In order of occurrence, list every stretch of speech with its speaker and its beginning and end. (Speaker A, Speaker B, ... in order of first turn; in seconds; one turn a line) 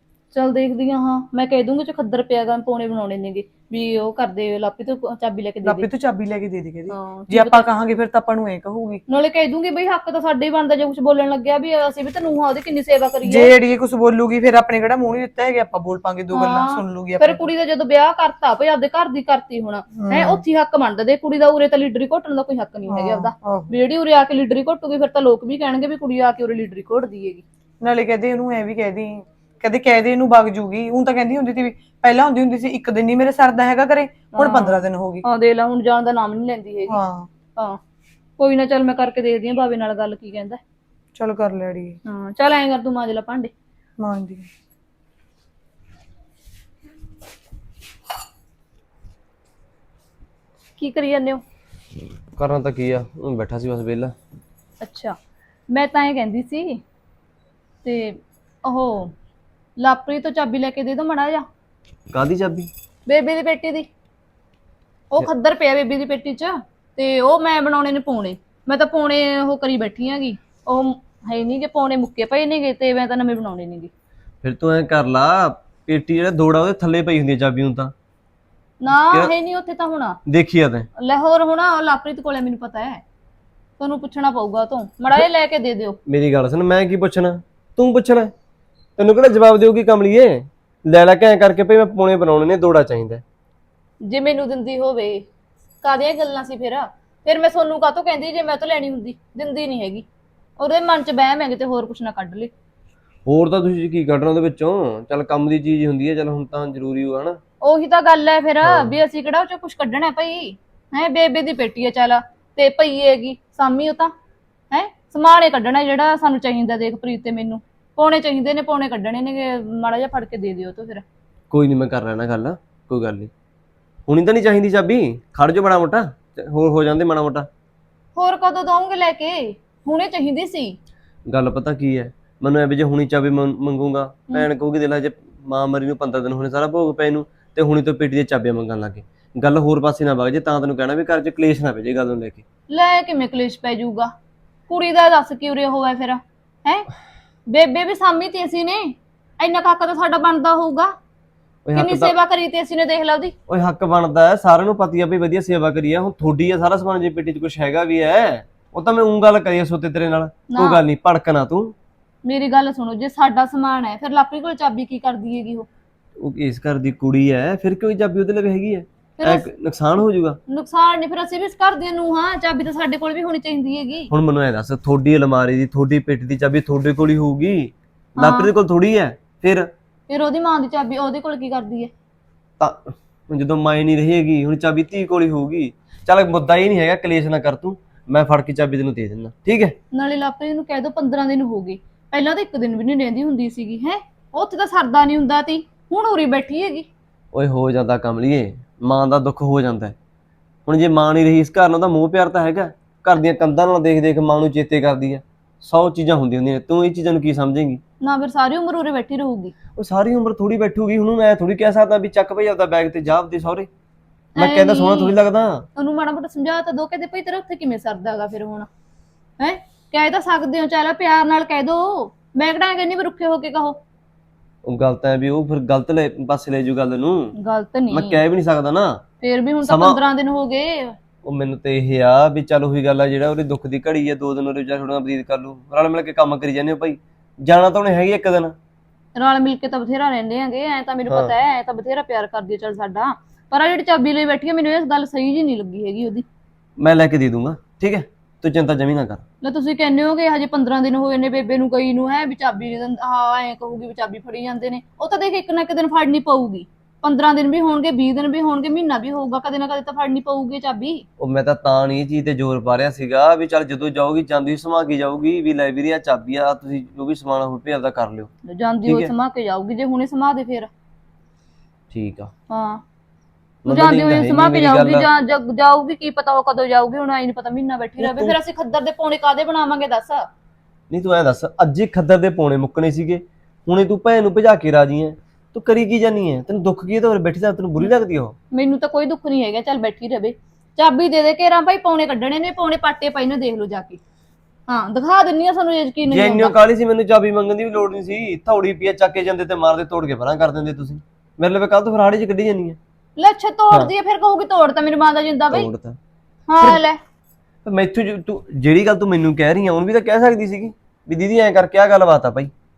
Speaker A: 0.3-5.9
Speaker B: 5.6-9.0
Speaker A: 6.9-7.7
Speaker A: 9.1-13.5
Speaker B: 13.2-17.4
Speaker A: 16.3-27.4
Speaker B: 19.9-20.4
Speaker B: 22.9-23.7
Speaker B: 27.8-35.2
Speaker A: 34.4-37.0
Speaker B: 36.9-37.3
Speaker A: 38.4-40.6
Speaker B: 41.1-42.0
Speaker A: 42.0-43.5
Speaker B: 44.0-44.5
Speaker A: 50.8-51.4
Speaker C: 52.4-54.1
Speaker A: 54.8-55.2
Speaker A: 55.7-56.8
Speaker A: 57.8-59.1
Speaker A: 59.8-61.5
Speaker C: 62.1-62.7
Speaker A: 63.1-63.9
Speaker A: 65.1-73.9
Speaker C: 74.4-77.9
Speaker A: 78.8-80.2
Speaker C: 79.0-79.3
Speaker C: 80.3-80.9
Speaker A: 81.0-83.0
Speaker A: 83.8-86.0
Speaker C: 86.1-88.3
Speaker C: 89.0-93.2
Speaker A: 94.0-95.2
Speaker A: 95.8-100.0
Speaker A: 100.6-102.5
Speaker C: 103.2-107.4
Speaker A: 107.6-114.1
Speaker C: 108.6-109.0
Speaker A: 114.7-121.0
Speaker C: 121.5-123.3
Speaker C: 124.1-127.5
Speaker A: 128.2-130.8
Speaker C: 131.3-142.4
Speaker A: 142.7-144.1
Speaker A: 144.7-146.9
Speaker A: 147.5-150.9
Speaker C: 151.6-152.1
Speaker A: 151.7-153.3
Speaker C: 153.5-161.7
Speaker A: 160.5-160.8
Speaker A: 162.2-165.7
Speaker C: 166.2-170.4
Speaker A: 169.2-169.5
Speaker A: 170.5-174.1
Speaker C: 174.1-179.7
Speaker A: 178.2-178.5
Speaker A: 180.1-181.9
Speaker C: 182.6-189.8
Speaker A: 189.9-196.9
Speaker C: 197.3-199.9
Speaker C: 200.7-207.8
Speaker A: 208.0-209.5
Speaker C: 209.8-213.7
Speaker A: 214.3-215.2
Speaker C: 214.4-215.7
Speaker A: 215.8-218.7
Speaker A: 219.4-223.8
Speaker C: 224.6-227.3
Speaker A: 227.4-228.2
Speaker C: 227.9-229.0
Speaker A: 229.2-230.9
Speaker C: 229.6-230.0
Speaker C: 231.2-238.5
Speaker A: 239.2-246.2
Speaker C: 241.1-241.3
Speaker C: 246.8-249.2
Speaker A: 249.4-261.0
Speaker C: 261.2-268.3
Speaker A: 268.5-270.7
Speaker C: 268.9-269.1
Speaker C: 271.9-272.3
Speaker A: 272.5-272.8
Speaker C: 273.6-275.1
Speaker A: 273.7-280.3
Speaker C: 278.0-278.4
Speaker C: 280.9-288.4
Speaker A: 288.5-294.0
Speaker A: 294.7-296.5
Speaker C: 296.1-302.8
Speaker A: 303.2-305.7
Speaker C: 305.5-306.0
Speaker A: 306.5-307.0
Speaker C: 307.6-312.5